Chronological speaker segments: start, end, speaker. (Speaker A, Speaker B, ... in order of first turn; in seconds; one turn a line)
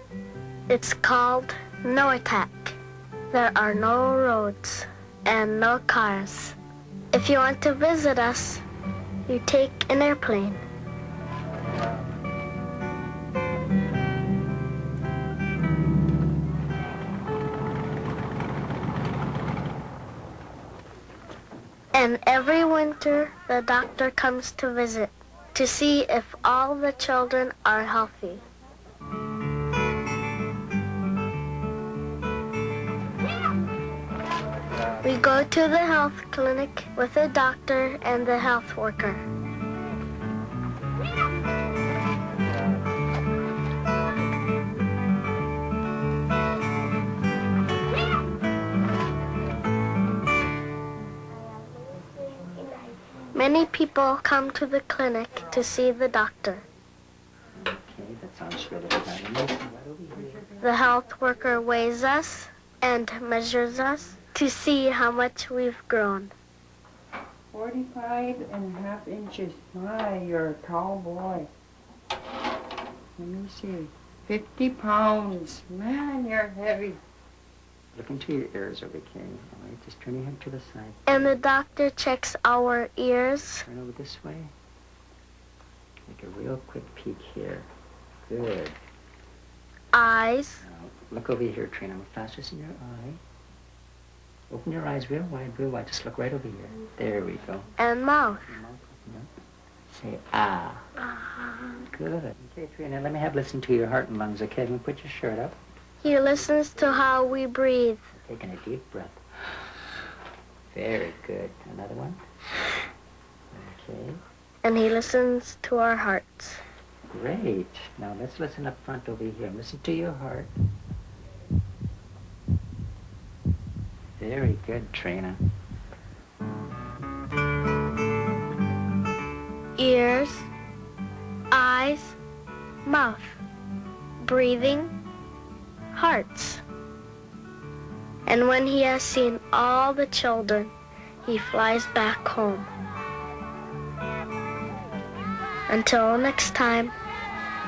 Speaker A: 0.7-2.8
Speaker A: 3.3-6.6
Speaker A: 7.1-8.6
Speaker A: 9.3-10.6
Speaker A: 21.9-28.4
Speaker A: 35.0-39.2
Speaker A: 53.3-56.6
Speaker B: 57.5-60.5
Speaker C: 60.1-60.8
Speaker A: 60.6-66.3
Speaker C: 67.5-71.5
Speaker C: 73.2-77.0
Speaker B: 77.9-81.4
Speaker A: 81.0-83.7
Speaker B: 83.6-84.5
Speaker B: 86.1-87.7
Speaker B: 88.3-88.8
Speaker A: 89.9-90.6
Speaker B: 90.6-93.2
Speaker B: 94.5-97.7
Speaker A: 97.8-98.5
Speaker B: 98.3-99.3
Speaker B: 99.9-100.9
Speaker A: 101.1-101.8
Speaker B: 101.8-105.6
Speaker A: 106.0-108.1
Speaker B: 106.1-107.1
Speaker B: 108.1-109.2
Speaker B: 110.7-112.2
Speaker B: 113.5-114.2
Speaker A: 114.6-116.6
Speaker B: 117.1-120.5
Speaker B: 124.2-125.4
Speaker A: 129.8-130.5
Speaker A: 131.5-132.2
Speaker A: 132.8-133.4
Speaker A: 134.2-134.9
Speaker A: 135.9-136.6
Speaker A: 138.3-140.7
Speaker A: 141.2-142.7
Speaker A: 145.7-146.9